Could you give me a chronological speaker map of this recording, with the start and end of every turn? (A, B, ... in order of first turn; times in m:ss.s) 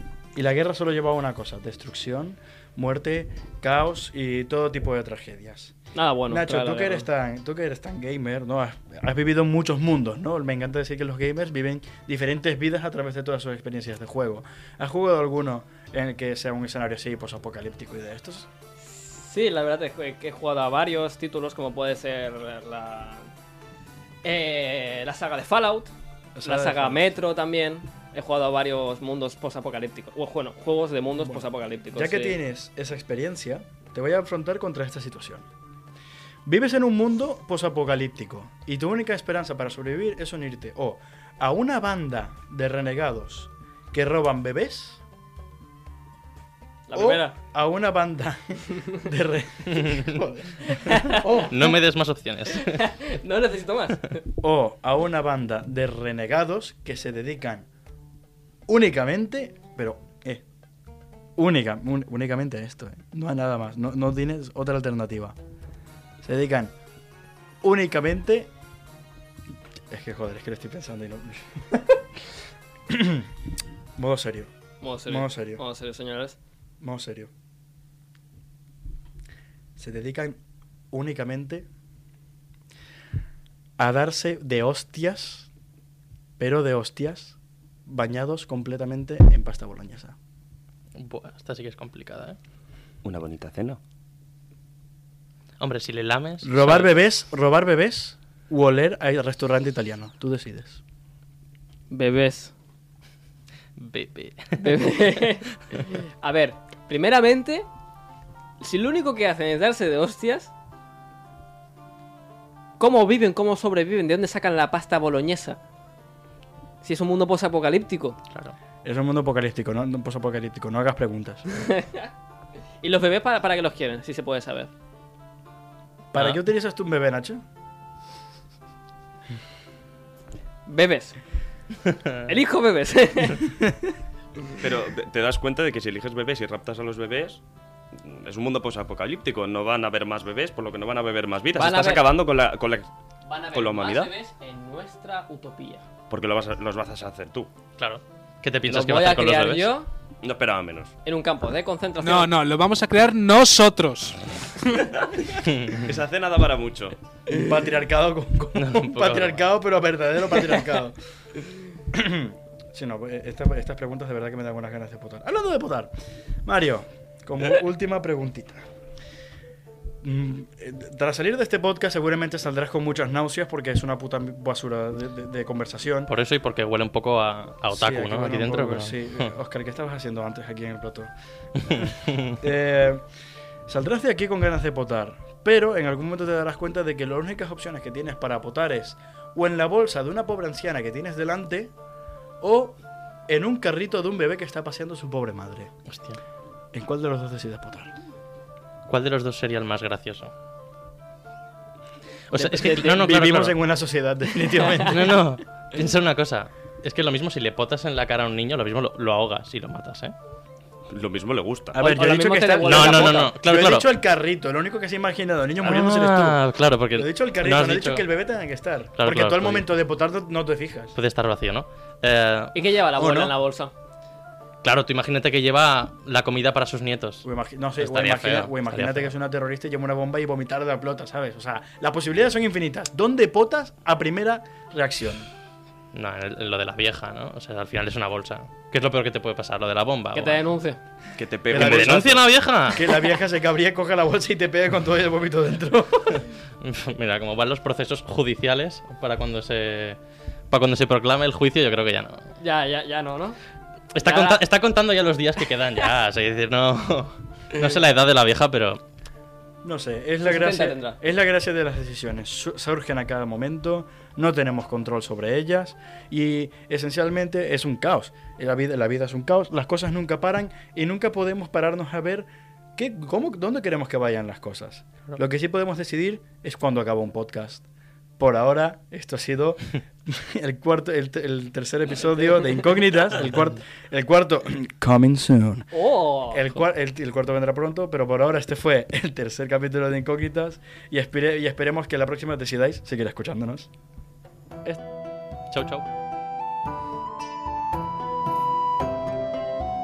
0:00.3-0:05.7 A
0:05.9-0:07.1 B
0:06.3-0:18.5 A
0:18.8-0:23.2 B
0:24.2-0:25.9 B
0:26.3-0:27.0 A
0:26.4-0:32.4 B
0:31.9-0:35.5 A
0:36.4-0:45.0 A
0:46.9-0:47.4 B
0:46.9-0:51.7 A
0:50.8-0:51.5 B
0:51.4-0:52.8 C
0:52.6-0:54.2 B
0:54.4-0:57.7 A
0:58.7-1:00.4 A
1:01.4-1:05.4 A
1:06.2-1:06.7 A
1:07.6-1:08.5 A
1:09.9-1:12.0 A
1:12.9-1:13.3 A
1:14.0-1:14.5 A
1:14.8-1:16.4 B
1:15.0-1:15.6 A
1:16.8-1:17.3 A
1:19.8-1:20.4 A
1:20.9-1:21.7 A
1:23.8-1:25.5 A
1:26.4-1:27.4 A
1:27.9-1:30.2 A
1:31.0-1:32.4 C
1:33.0-1:33.8 D
1:35.6-1:36.9 C
1:36.4-1:40.8 A
1:41.9-1:42.5 B
1:43.8-1:44.6 C
1:44.6-1:47.7 B
1:48.6-1:50.5 B
1:52.8-1:55.6 B
1:56.8-1:58.2 B
1:58.8-2:01.5 A
2:01.6-2:02.1 B
2:02.8-2:04.7 B
2:06.1-2:07.4 A
2:10.7-2:11.2 B
2:12.2-2:13.6 B
2:14.6-2:17.4 D
2:17.9-2:22.9 D
2:21.6-2:22.1 B
2:23.2-2:25.8 B
2:23.5-2:24.1 D
2:26.1-2:27.5 D
2:27.8-2:29.7 C
2:28.7-2:29.9 B
2:30.2-2:30.9 D
2:31.0-2:32.3 B
2:32.0-2:34.2 E
2:35.2-2:37.0 D
2:37.3-2:41.0 A
2:38.6-2:39.4 C
2:41.9-2:45.9 A
2:46.4-2:48.6 A
2:50.0-2:56.1 A
2:56.1-2:59.1 C
2:57.7-3:03.0 A
3:01.8-3:02.4 C
3:03.7-3:11.7 A
3:12.4-3:15.7 A
3:15.9-3:16.2 C
3:16.7-3:17.9 A
3:18.9-3:20.3 C
3:22.3-3:23.6 C
3:22.4-3:22.9 B
3:22.4-3:25.2 A
3:24.6-3:24.9 B
3:24.9-3:30.1 C
3:30.9-3:31.8 D
3:31.7-3:36.4 A
3:31.8-3:33.3 B
3:32.6-3:33.9 C
3:35.6-3:38.0 C
3:36.9-3:40.9 A
3:39.0-3:39.7 C
3:41.0-3:42.5 C
3:42.5-3:43.7 B
3:43.0-3:43.3 A
3:44.6-3:47.2 C
3:47.2-3:55.3 A
3:47.8-3:49.1 C
3:55.9-4:00.4 C
4:00.1-4:00.8 B
4:01.2-4:02.2 D
4:01.5-4:02.2 A
4:01.5-4:02.9 C
4:02.7-4:06.2 A
4:06.6-4:10.0 C
4:10.5-4:12.2 C
4:12.4-4:13.4 B
4:13.9-4:18.8 C
4:14.0-4:14.4 B
4:19.6-4:37.6 A
4:20.2-4:21.0 B
4:38.2-4:45.7 A
4:45.7-4:46.6 B
4:46.3-4:53.7 A
4:55.5-4:55.8 C